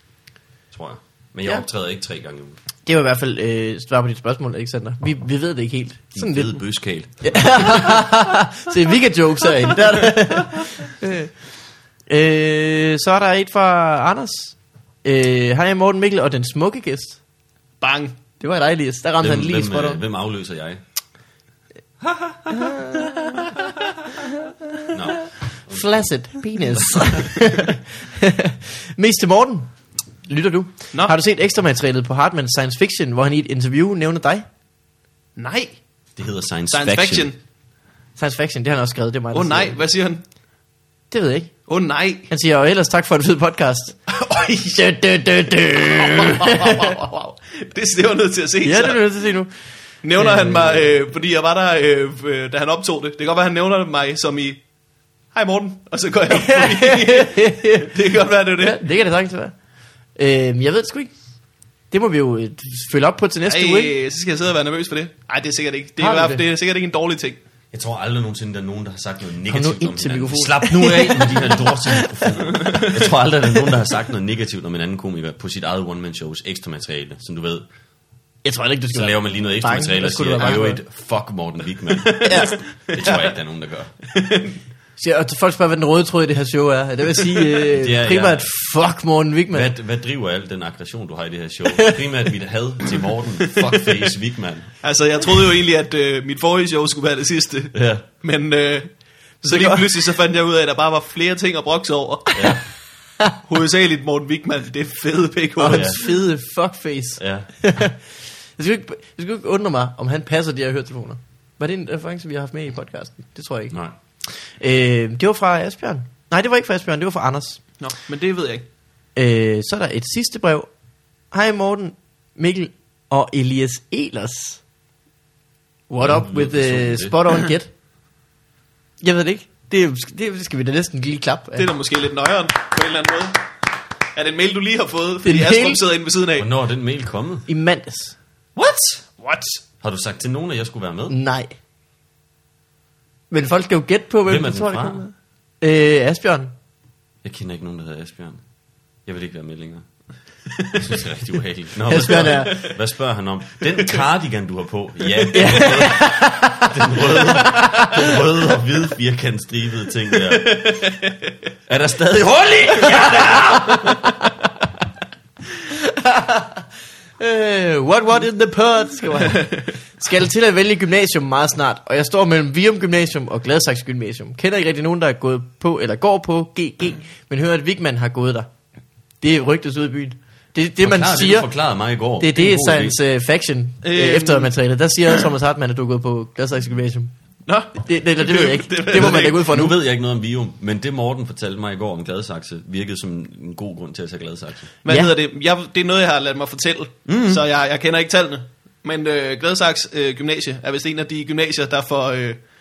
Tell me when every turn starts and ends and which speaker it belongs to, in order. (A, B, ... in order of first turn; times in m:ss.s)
0:00.7-0:02.6 A
0:02.8-0:06.6 B
0:06.1-0:08.0 A
0:07.2-0:11.3 B
0:12.1-0:17.2 B
0:17.8-0:18.2 C
0:18.4-0:20.0 B
0:19.2-0:20.8 A
0:22.0-0:22.7 A
0:22.5-0:29.7 B
0:24.9-0:25.9 A
0:26.7-0:27.3 A
0:30.3-0:34.4 B
0:35.4-0:35.8 C
0:36.2-0:37.3 A
0:36.7-0:37.4 C
0:38.2-0:39.8 B
0:39.3-0:40.2 C
0:41.1-0:41.6 B
0:41.7-0:42.3 C
0:42.3-0:47.0 B
0:44.1-0:44.6 C
0:46.0-0:49.0 C
0:48.6-0:49.5 B
0:50.0-0:54.6 C
0:50.1-0:50.9 B
0:55.3-0:58.8 C
0:56.3-0:57.9 B
0:58.6-0:59.6 B
1:00.2-1:01.1 B
1:01.9-1:03.9 B
1:03.4-1:07.4 C
1:06.0-1:06.4 B
1:07.7-1:17.7 A
1:09.5-1:12.3 B
1:18.4-1:20.8 B
1:18.9-1:23.9 A
1:22.1-1:23.3 C
1:22.2-1:22.6 B
1:24.1-1:24.6 C
1:25.0-1:29.7 B
1:27.7-1:28.5 A
1:29.5-1:34.7 A
1:34.8-1:38.9 C
1:37.7-1:38.0 A
1:39.4-1:39.8 B
1:39.4-1:42.6 C
1:42.3-1:42.6 A
1:43.4-1:46.0 C
1:45.6-1:53.8 B
1:45.7-1:46.0 A
1:47.2-1:47.5 A
1:54.3-1:57.6 B
1:57.8-1:58.6 C
1:59.2-2:00.7 B
2:01.3-2:04.6 B
2:05.9-2:07.7 B
2:06.0-2:07.2 A
2:09.0-2:11.7 B
2:11.6-2:13.5 C
2:14.1-2:16.5 C
2:15.2-2:15.8 B
2:16.4-2:17.5 A
2:17.5-2:18.2 B
2:18.6-2:19.6 C
2:19.8-2:21.2 A
2:21.1-2:21.5 B
2:23.3-2:26.5 B
2:24.3-2:25.0 A
2:27.2-2:28.4 A
2:29.0-2:29.9 A
2:30.7-2:40.9 A
2:31.8-2:32.7 B
2:35.3-2:38.2 B
2:40.5-2:41.1 C
2:41.7-2:44.1 A
2:43.2-2:44.3 B
2:45.8-2:46.6 B
2:47.2-2:58.5 B
2:49.3-2:49.7 C
2:59.2-3:01.5 B
3:00.8-3:03.0 A
3:02.2-3:07.1 B
3:03.8-3:04.5 C
3:07.4-3:09.5 C
3:07.7-3:09.7 B
3:09.3-3:14.7 A
3:14.8-3:22.4 C
3:14.9-3:15.1 B
3:17.0-3:17.4 A